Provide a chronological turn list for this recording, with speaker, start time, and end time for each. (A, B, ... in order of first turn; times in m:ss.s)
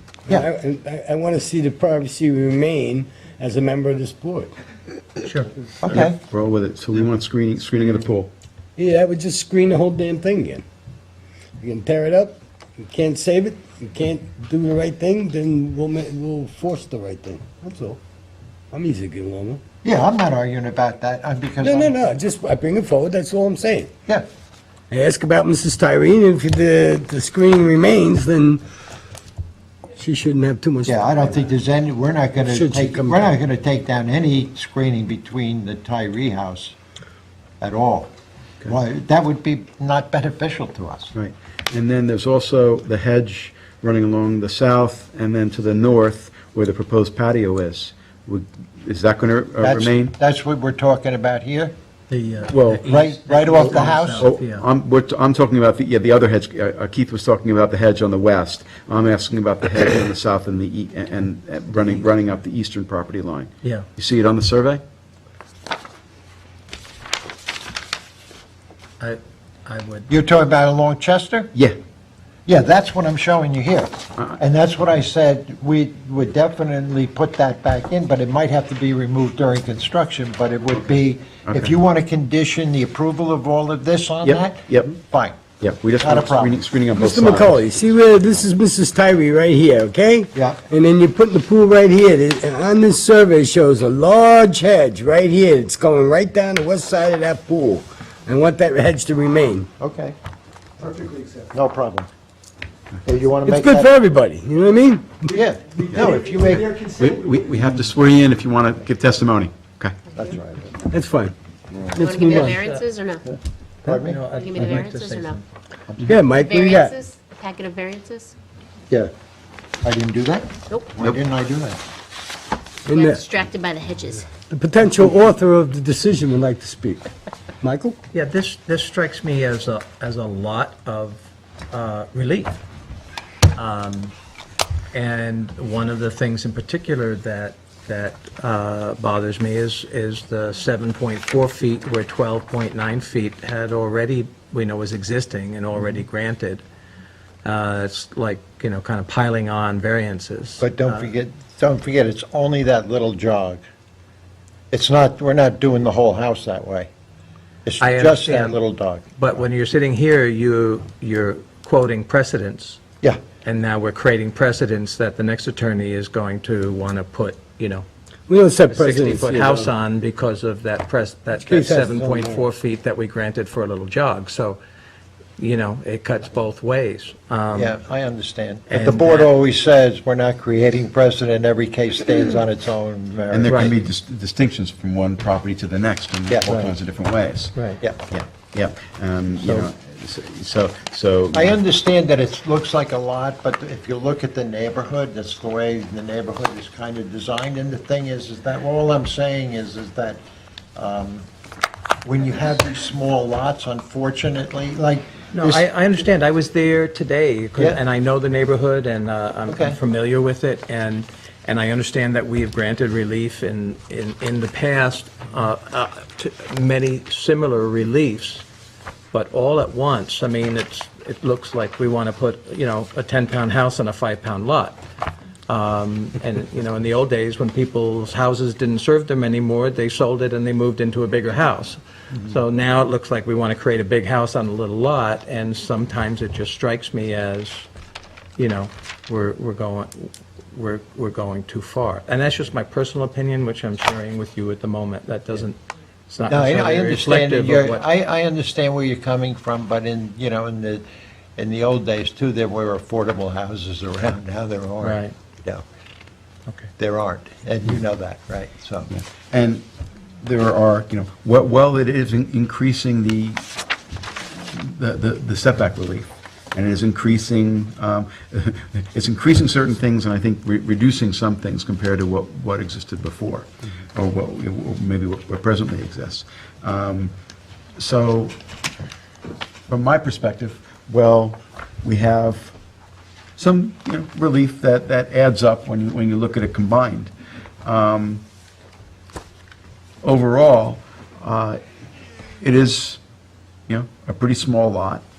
0:00.3-0:04.5 A
0:05.2-0:05.5 B
0:05.8-0:06.2 C
0:05.9-0:08.3 D
0:08.8-0:10.6 A
0:11.6-0:18.0 A
0:18.7-0:19.6 A
0:19.8-0:21.9 C
0:21.6-0:23.9 A
0:24.9-0:28.6 A
0:30.0-0:31.4 A
0:30.9-0:36.7 C
0:32.4-0:33.3 A
0:37.6-0:38.1 C
0:38.7-0:41.1 C
0:41.1-0:50.2 D
0:49.6-0:51.8 C
0:52.1-0:54.6 B
0:52.5-0:52.9 D
0:52.9-0:54.3 C
0:54.1-1:04.8 D
1:09.0-1:10.1 B
1:10.1-1:11.5 C
1:12.5-1:25.4 C
1:21.4-1:21.7 D
1:24.2-1:25.0 D
1:25.6-1:27.6 D
1:26.0-1:26.6 C
1:27.0-1:39.7 A
1:39.8-1:40.2 C
1:41.5-1:42.1 C
1:43.0-1:43.9 C
1:43.5-1:45.3 A
1:45.3-1:46.8 C
1:46.7-1:50.0 D
1:50.2-1:50.7 C
1:50.9-1:51.3 A
1:51.7-1:52.5 C
1:51.9-1:52.6 A
1:52.0-1:53.3 E
1:52.2-1:52.8 B
1:53.8-1:55.4 B
1:53.8-1:54.3 C
1:54.3-1:55.4 E
1:56.0-1:57.0 A
1:56.2-1:58.4 E
1:59.8-2:01.8 C
2:00.7-2:00.9 E
2:02.9-2:03.2 A
2:02.9-2:04.3 E
2:04.4-2:08.0 A
2:08.1-2:12.6 B
2:13.5-2:14.1 B
2:14.9-2:26.6 B
2:27.4-2:31.1 B
2:30.6-2:33.6 C
2:34.7-2:36.9 C
2:37.7-2:39.2 C
2:37.8-2:38.6 B
2:39.2-2:42.8 B
2:43.4-2:47.9 B
2:48.3-2:49.7 A
2:48.7-2:54.6 B
2:51.5-2:52.4 A
2:55.4-2:57.8 B
2:57.5-3:03.7 C
2:58.7-2:59.3 B
3:03.3-3:11.6 D
3:06.3-3:06.7 C
3:07.5-3:07.8 B
3:09.4-3:09.7 B
3:11.3-3:20.2 C
3:20.8-3:21.3 C
3:22.0-3:25.6 C
3:25.3-3:38.4 B
3:29.5-3:29.8 C
3:39.1-3:44.8 B
3:45.5-3:57.7 B
3:58.4-4:05.6 B
4:06.1-4:07.9 B
4:06.3-4:10.8 C
4:11.4-4:15.6 C
4:14.8-4:15.2 B
4:16.8-4:18.9 C
4:18.9-4:19.7 D
4:20.2-4:23.4 D
4:24.2-4:37.1 D
4:37.8-4:38.4 D
4:39.7-4:42.6 D
4:43.4-4:47.1 D
4:47.6-4:48.2 D
4:50.0-4:51.6 D
4:52.4-4:53.0 D
4:53.7-4:55.0 D